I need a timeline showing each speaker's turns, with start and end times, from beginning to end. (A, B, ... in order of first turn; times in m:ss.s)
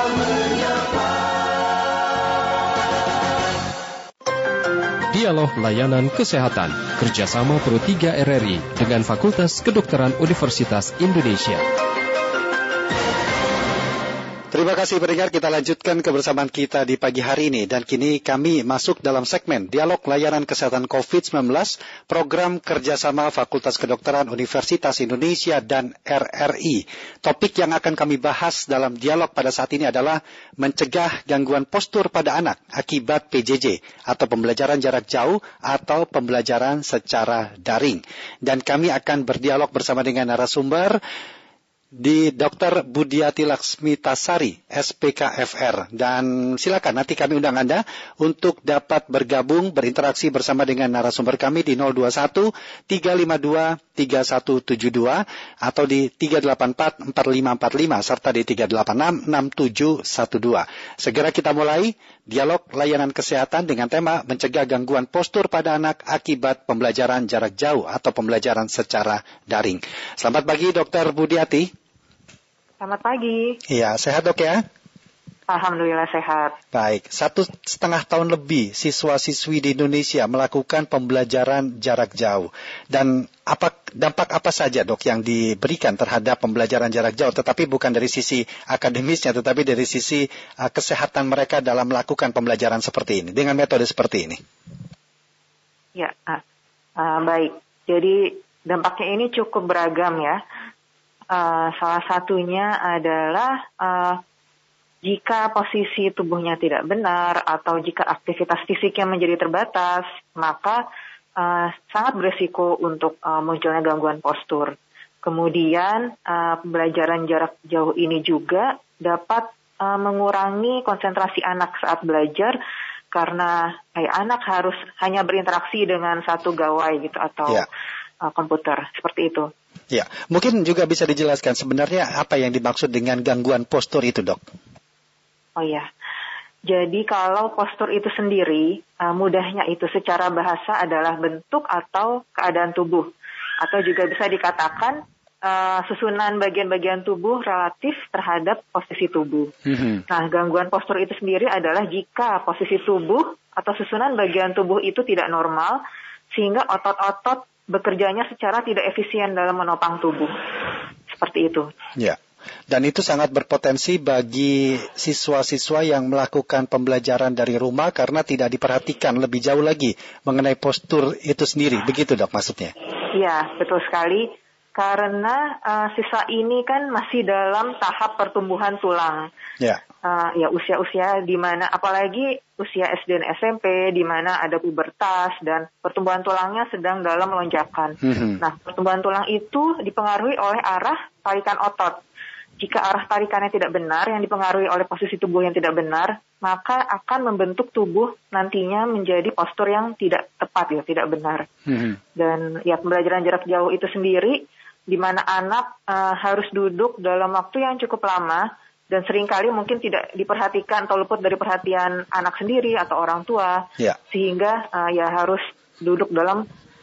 0:05.1-0:11.6 A
0:14.5-0:41.0 B
0:42.0-1:11.7 B
1:12.8-1:13.6 C
1:13.7-1:14.6 B
1:15.5-1:16.6 C
1:16.7-1:34.4 B
1:35.9-1:36.4 C
1:37.0-1:40.4 C
1:41.3-1:44.2 C
1:45.0-1:50.8 C
1:51.4-2:02.6 C
2:03.1-2:07.7 C
2:08.2-2:09.5 C
2:09.9-2:14.4 B
2:15.6-2:15.9 C
2:16.7-2:23.1 C
2:23.6-2:29.5 C
2:29.7-2:30.0 B
2:30.1-2:35.8 C
2:36.3-2:40.3 C
2:41.1-2:41.7 C
2:42.7-2:52.7 B
2:53.1-2:59.3 C
3:00.0-3:12.0 C
3:08.0-3:08.4 B
3:12.6-3:21.5 C
3:21.7-3:22.0 B
3:22.2-3:36.4 C